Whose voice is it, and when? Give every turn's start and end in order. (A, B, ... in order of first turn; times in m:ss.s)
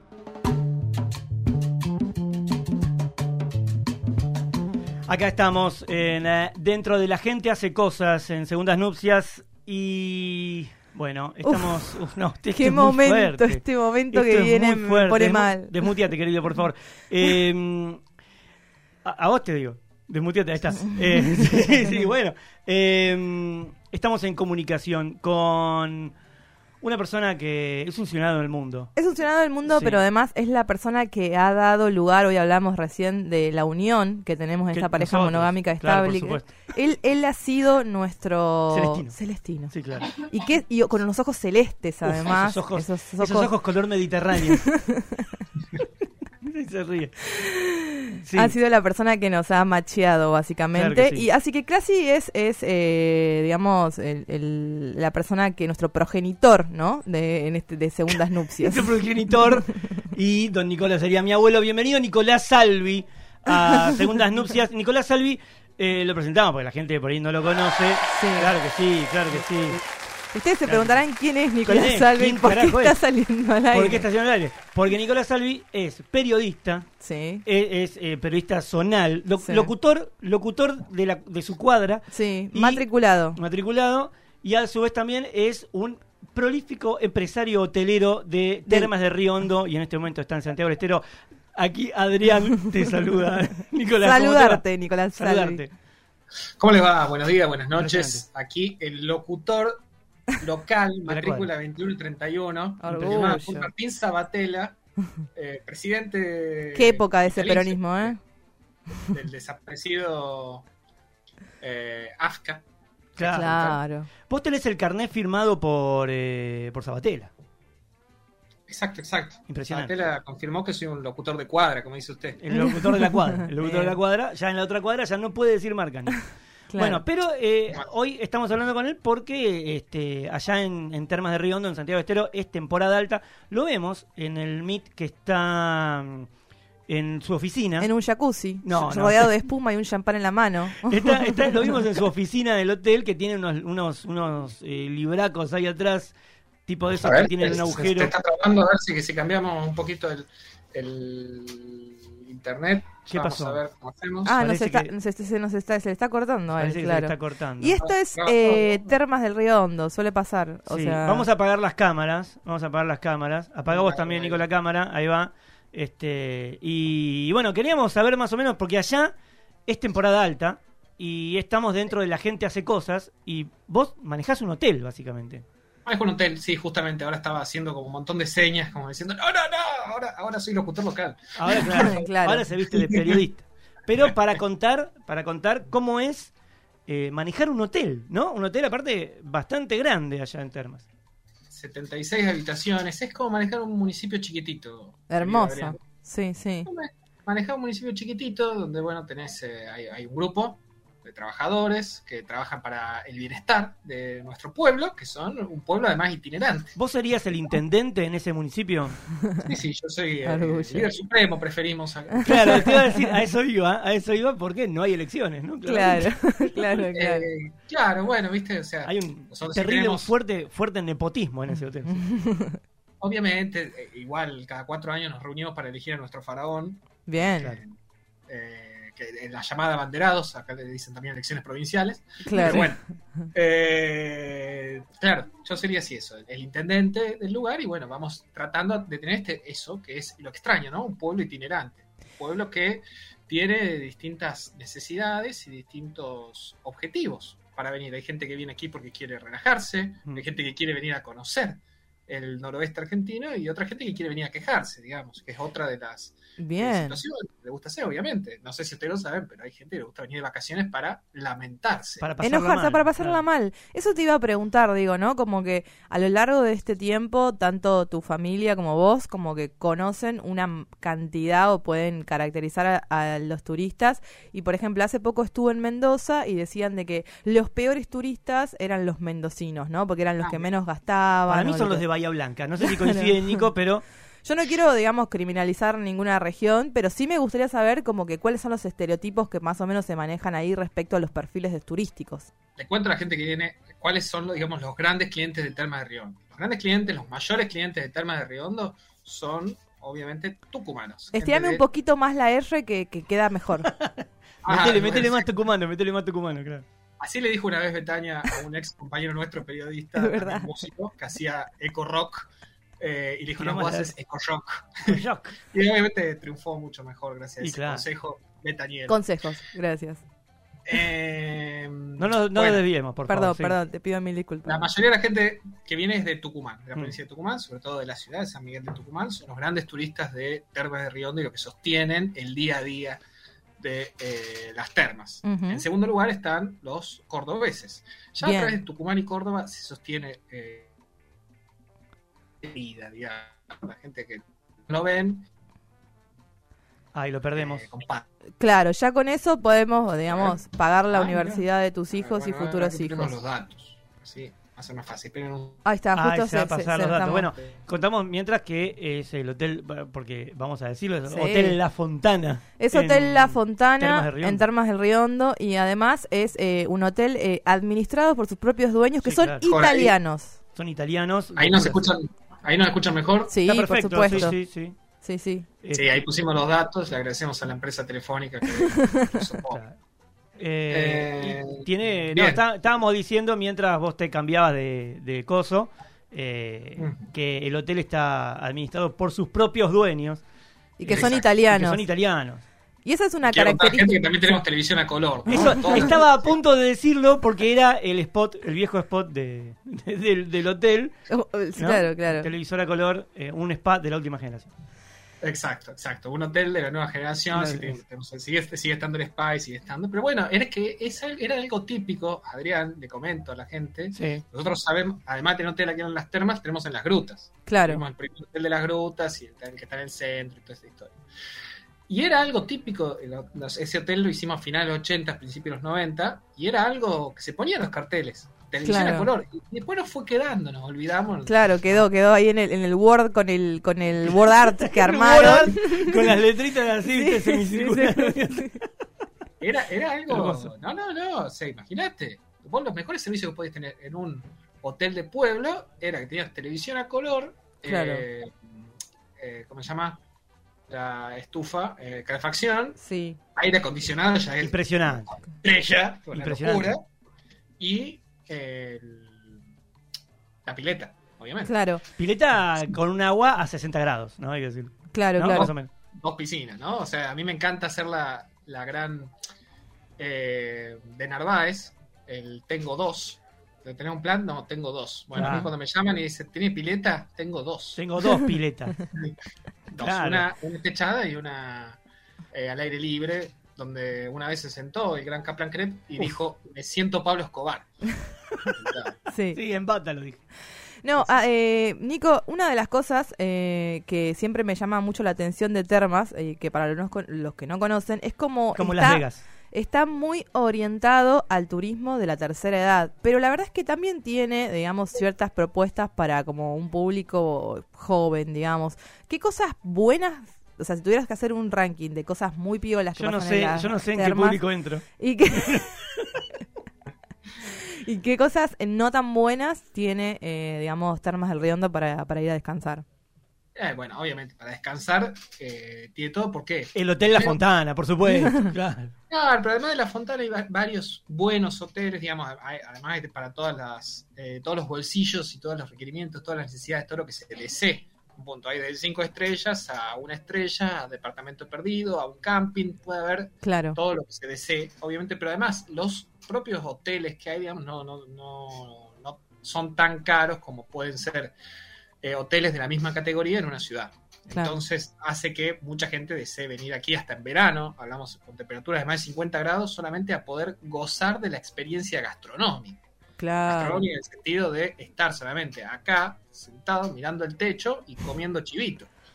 0:05.1-0:18.0 A
0:11.4-0:11.8 B
0:12.5-0:15.8 B
0:19.0-0:26.1 A
0:26.8-0:28.9 A
0:29.0-0:43.5 B
0:29.7-0:30.0 A
0:34.7-0:36.5 A
0:38.7-0:39.2 A
0:39.7-0:40.1 A
0:42.0-0:44.7 A
0:44.5-0:45.4 B
0:46.4-0:47.2 A
0:47.3-0:59.0 B
0:48.2-0:48.5 A
0:50.7-0:51.2 A
0:58.6-1:09.8 A
1:08.1-1:08.5 B
1:10.3-1:14.0 B
1:10.6-1:11.0 A
1:11.6-1:13.0 A
1:13.7-1:16.9 A
1:17.0-1:17.4 B
1:17.4-1:22.8 A
1:19.4-1:19.7 B
1:22.1-1:23.4 B
1:23.4-1:31.0 A
1:31.6-1:34.6 A
1:34.0-1:35.6 B
1:35.2-1:35.7 A
1:36.6-1:39.8 C
1:37.8-1:38.2 A
1:40.4-1:44.8 C
1:41.1-1:41.5 A
1:42.8-1:43.7 B
1:42.8-1:43.3 A
1:45.3-1:48.1 C
1:46.7-1:48.2 B
1:49.1-1:50.6 C
1:51.6-1:52.6 C
1:53.2-1:53.8 A
1:53.2-1:54.1 B
1:54.3-1:57.3 A
1:58.7-2:02.4 C
1:59.5-1:59.9 A
2:02.4-2:16.3 A
2:02.6-2:04.0 B
2:06.7-2:07.0 B
2:16.9-2:17.9 A
2:17.8-2:21.8 B
2:18.6-2:19.3 A
2:20.8-2:26.1 A
2:26.7-2:28.1 A
2:27.0-2:34.4 C
2:33.1-2:33.6 A
2:34.2-2:41.3 B
2:34.4-2:34.9 A
2:36.6-2:37.8 A
2:37.8-2:38.9 C
2:40.7-2:49.1 A
2:43.6-2:44.4 C
2:49.7-2:55.4 A
2:55.8-3:02.0 C
3:01.3-3:06.3 A
3:01.6-3:02.4 B
3:02.8-3:03.2 C
3:06.9-3:10.8 A
3:11.5-3:15.8 C
3:15.1-3:16.7 B
3:16.6-3:26.7 C
3:26.8-3:29.0 A
3:29.4-3:32.8 C
3:30.2-3:30.9 B
3:32.1-3:32.8 B
3:32.2-3:36.1 A
3:35.6-3:37.3 B
3:36.5-3:40.1 C
3:38.8-3:42.0 A
3:41.9-3:42.6 B
3:43.0-3:47.7 C
3:47.0-3:47.6 B
3:48.3-3:52.8 C
3:52.2-3:52.7 B
3:52.4-3:52.6 A
3:53.3-4:22.1 C
4:16.4-4:17.0 B
4:22.0-4:23.2 A
4:22.2-4:41.8 B
4:40.2-4:40.5 C
4:41.3-4:43.8 A
4:42.6-4:43.4 B
4:44.2-4:52.3 B
4:52.6-5:01.6 C
5:01.2-5:03.7 B
5:03.7-5:06.6 A
5:04.4-5:05.2 C
5:07.0-5:12.3 C
5:10.0-5:10.5 B
5:12.8-5:15.0 C
5:13.4-5:13.9 A
5:14.8-5:15.4 A
5:15.5-5:19.0 C
5:17.4-5:17.8 A
5:18.9-5:20.0 B
5:20.7-5:22.6 C
5:22.0-5:23.6 A
5:23.1-5:24.6 B
5:24.4-5:33.0 C
5:33.6-5:40.7 C
5:35.2-5:35.6 B
5:38.2-5:38.6 B
5:42.4-5:45.3 C
5:46.9-5:47.7 A
5:47.4-5:48.0 C
5:48.4-5:53.1 B
5:50.1-5:55.6 C
5:55.6-5:57.3 B
5:55.9-6:04.4 A
6:01.1-6:01.6 B
6:02.6-6:10.4 B
6:09.0-6:09.4 A
6:09.5-6:09.9 C
6:10.5-6:11.9 A
6:11.4-6:13.3 C
6:13.3-6:14.4 B
6:13.4-6:14.8 A
6:15.0-6:15.4 B
6:15.6-6:15.9 A
6:15.7-6:19.6 C
6:18.6-6:19.2 B
6:19.5-6:19.8 A
6:20.4-6:30.2 A
6:20.7-6:22.4 C
6:26.8-6:27.1 C
6:30.8-6:31.8 B
6:30.8-6:32.4 A
6:30.8-6:31.2 C
6:32.8-6:34.4 B
6:33.3-6:36.4 C
6:35.2-6:40.9 A
6:41.1-6:42.3 B
6:41.6-6:44.5 A
6:45.2-7:00.9 C
6:47.3-6:47.8 A
6:53.9-6:54.2 A
6:57.5-6:57.8 B
7:01.9-7:11.4 C
7:08.6-7:09.1 B
7:11.2-7:16.1 B
7:14.4-7:18.6 A
7:16.9-7:18.6 B
7:19.4-7:28.3 C
7:20.1-7:20.5 A
7:27.6-7:28.0 B
7:29.2-7:30.0 C
7:30.7-7:32.8 C
7:32.8-7:33.2 B
7:33.4-7:36.8 C
7:34.4-7:35.1 A
7:36.1-7:36.7 A
7:37.6-7:39.4 C
7:40.4-7:41.5 C
7:41.4-7:41.8 B
7:42.0-7:45.7 A
7:44.9-7:45.5 B
7:45.3-7:49.1 C
7:50.0-7:57.8 C
7:55.1-7:55.5 A
7:57.8-7:58.8 A
7:59.7-8:01.8 C
7:59.8-8:00.3 A
8:02.3-8:07.7 C
8:08.5-8:09.0 C
8:09.1-8:09.4 B
8:09.3-8:10.2 A
8:10.8-8:34.4 B
8:18.5-8:19.2 A
8:33.0-8:34.8 A
8:35.0-8:35.7 B
8:35.4-8:36.0 A
8:37.5-8:42.8 B
8:43.5-8:47.4 C
8:46.7-8:48.9 A
8:49.1-9:11.4 C
9:03.4-9:03.8 B
9:12.0-9:22.8 C
9:14.3-9:14.6 B
9:23.2-9:23.8 B
9:23.5-9:28.9 C